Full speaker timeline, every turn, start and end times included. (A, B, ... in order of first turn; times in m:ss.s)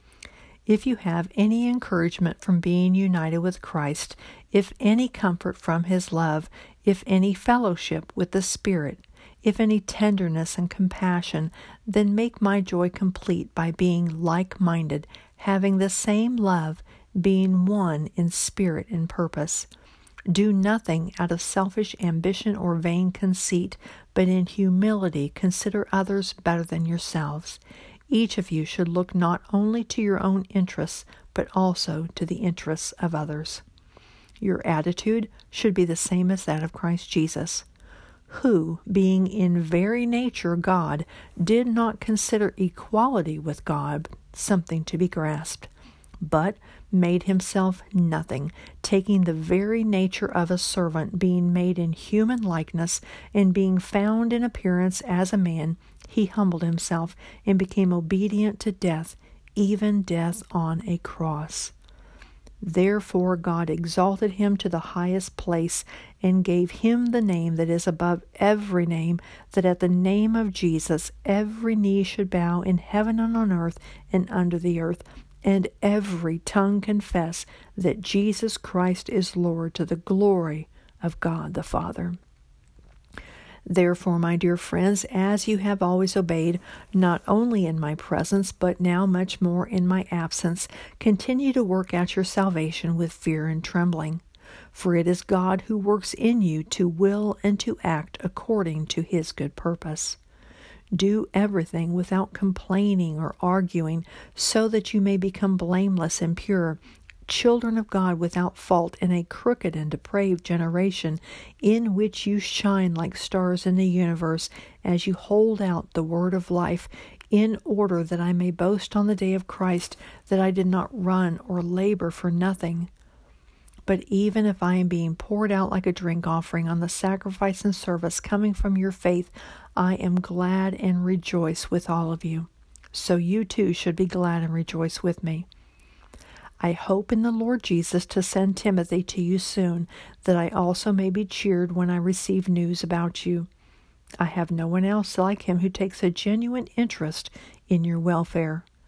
0:00.7-0:19.7 A
0:20.3-0:33.6 A
0:34.4-0:37.6 A
0:38.3-0:45.7 A
0:46.2-1:01.7 A
1:02.6-1:22.2 A
1:23.7-1:40.2 A
1:40.9-2:02.9 A
2:03.9-2:15.5 A
2:16.6-2:23.5 A
2:24.2-2:28.6 A